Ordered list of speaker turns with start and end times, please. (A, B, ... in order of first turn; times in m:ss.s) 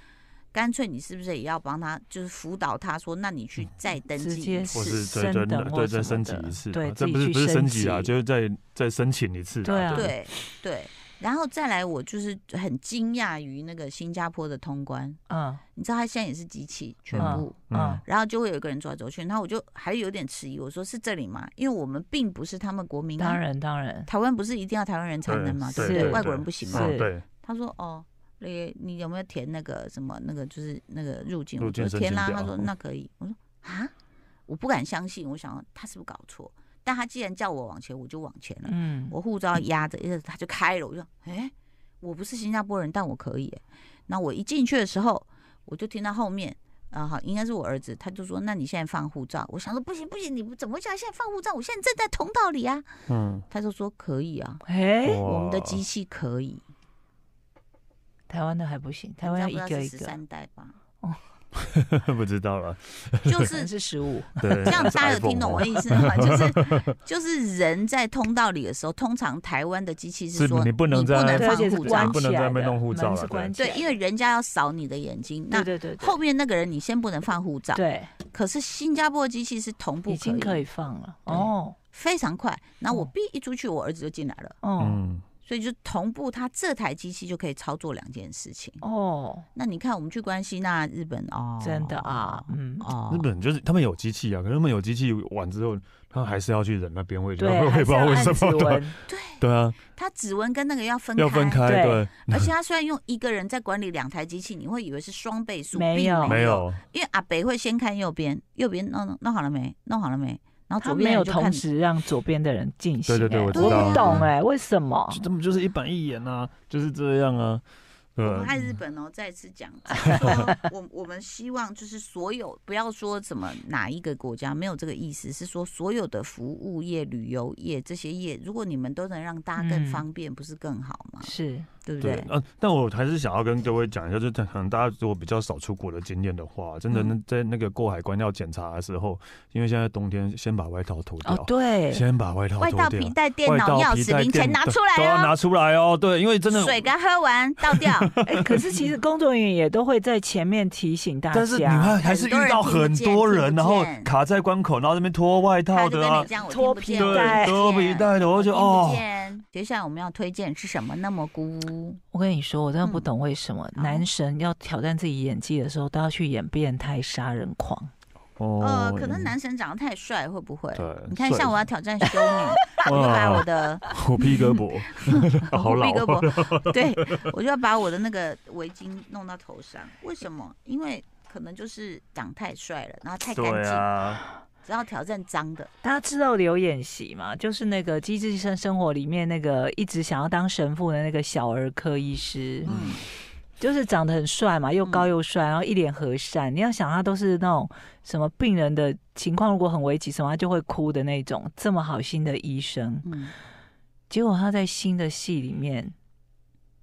0:00.5-0:05.1 A
0:04.2-0:08.1 B
0:04.7-0:10.2 C
0:09.6-0:10.1 B
0:09.9-0:15.2 A
0:15.3-0:15.6 B
0:15.8-0:23.4 A
0:17.1-0:18.0 C
0:17.2-0:18.0 B
0:23.2-0:24.1 B
0:24.1-0:33.9 A
0:25.3-0:27.2 C
0:25.8-0:27.1 B
0:31.6-0:32.7 C
0:34.5-0:52.9 A
0:38.6-0:39.2 B
0:53.1-0:53.4 C
0:53.5-0:54.6 A
0:54.6-0:55.2 B
0:55.0-0:55.8 C
0:55.2-0:56.6 A
0:58.3-1:00.2 B
0:59.2-1:00.8 A
1:01.6-1:03.5 C
1:03.3-1:03.7 A
1:03.5-1:04.9 B
1:04.4-1:06.9 C
1:04.7-1:12.2 A
1:10.3-1:13.5 C
1:11.4-1:13.9 B
1:13.6-1:20.6 A
1:15.5-1:16.2 B
1:17.7-1:18.1 B
1:20.1-1:21.8 B
1:21.3-1:24.6 A
1:24.6-1:25.0 B
1:24.8-1:25.2 C
1:25.4-1:28.8 A
1:28.8-1:29.5 B
1:29.6-1:33.3 A
1:31.6-1:32.9 B
1:33.1-1:39.8 C
1:37.4-1:38.9 B
1:39.1-1:39.4 A
1:40.0-1:51.6 A
1:41.2-1:42.5 C
1:41.6-1:42.0 B
1:45.7-1:46.4 B
1:46.2-1:46.8 C
1:50.8-1:55.2 B
1:53.1-1:54.3 C
1:53.5-1:54.2 A
1:55.1-1:57.6 C
1:58.2-1:58.7 C
1:58.2-2:11.3 A
2:00.0-2:00.4 C
2:00.1-2:00.6 B
2:09.6-2:10.0 B
2:11.2-2:11.7 B
2:11.8-2:12.3 A
2:12.0-2:26.9 C
2:21.2-2:22.0 B
2:22.6-2:25.4 A
2:26.5-2:28.2 A
2:27.6-2:28.9 C
2:28.3-2:32.0 B
2:31.3-2:36.3 C
2:32.0-2:34.1 A
2:35.7-2:42.0 A
2:36.4-2:37.6 B
2:37.0-2:39.0 C
2:42.1-2:47.9 B
2:42.8-2:43.1 A
2:43.8-2:44.1 A
2:48.4-2:49.3 C
2:48.6-2:53.9 A
2:50.8-2:51.6 C
2:52.1-2:52.8 B
2:52.8-2:57.3 C
2:54.5-3:03.9 A
3:03.3-3:04.2 C
3:04.6-3:05.7 A
3:05.8-3:12.7 B
3:12.6-3:13.0 C
3:12.6-3:13.0 A
3:13.6-3:23.1 B
3:14.8-3:15.1 A
3:23.0-3:23.3 A
3:24.1-3:26.0 B